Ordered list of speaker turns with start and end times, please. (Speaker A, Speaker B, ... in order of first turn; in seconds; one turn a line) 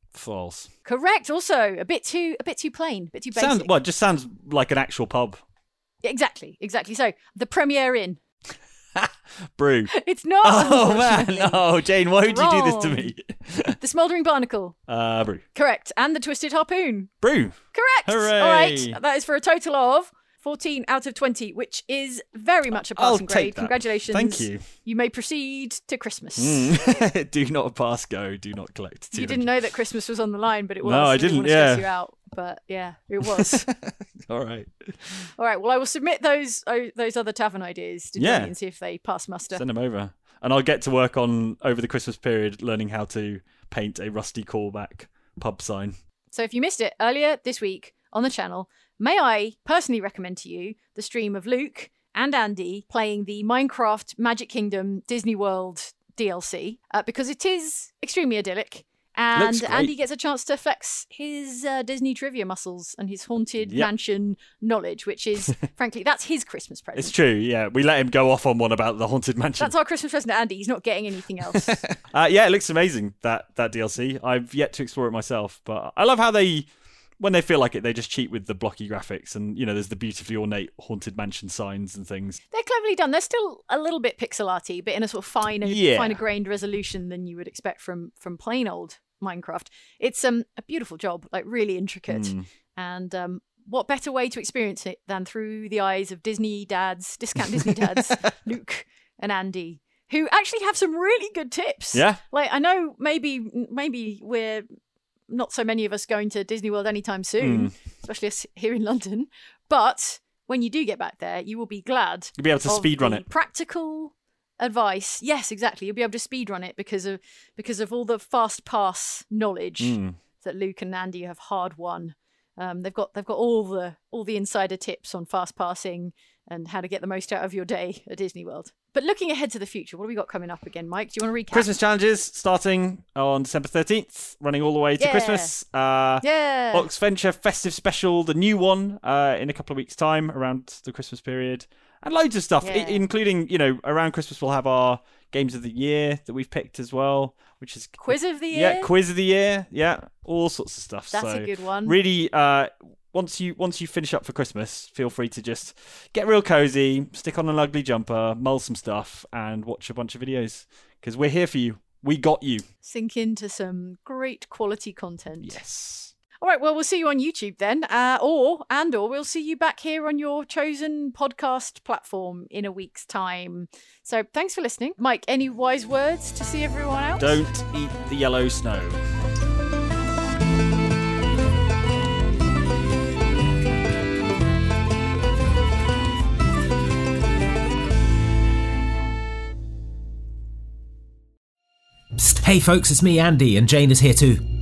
Speaker A: 0.1-0.7
Speaker B: 0.8-3.7
Speaker A: 3.3-5.4
Speaker B: 6.0-8.2
Speaker A: 8.9-9.9
Speaker B: 9.9-11.6
Speaker A: 10.4-13.8
Speaker B: 12.2-13.1
Speaker B: 13.8-14.8
Speaker A: 14.9-15.4
Speaker B: 15.5-17.1
Speaker A: 17.2-19.0
Speaker B: 17.7-27.1
Speaker A: 22.8-24.6
Speaker A: 26.4-29.5
Speaker B: 29.1-33.7
Speaker A: 30.8-31.9
Speaker A: 33.2-35.3
Speaker B: 35.4-39.6
Speaker A: 38.2-38.5
Speaker A: 39.5-46.0
Speaker B: 46.3-67.1
Speaker A: 59.3-59.9
Speaker A: 63.6-63.9
Speaker A: 67.0-69.7
Speaker B: 69.6-71.8
Speaker A: 71.5-76.7
Speaker A: 77.2-82.4
Speaker B: 82.5-104.7
Speaker A: 85.6-86.2
Speaker A: 92.1-92.5
Speaker A: 97.9-98.3
Speaker A: 101.9-102.2
Speaker B: 105.3-131.7
Speaker A: 107.4-107.7
Speaker A: 112.4-113.2
Speaker A: 119.8-120.2
Speaker A: 131.5-162.6
Speaker B: 135.0-135.5
Speaker B: 136.2-136.9
Speaker B: 142.6-143.0
Speaker B: 148.0-148.9
Speaker B: 151.1-151.9
Speaker B: 162.8-165.6
Speaker A: 165.4-166.1
Speaker B: 166.4-177.4
Speaker A: 177.2-179.0
Speaker C: 192.2-194.4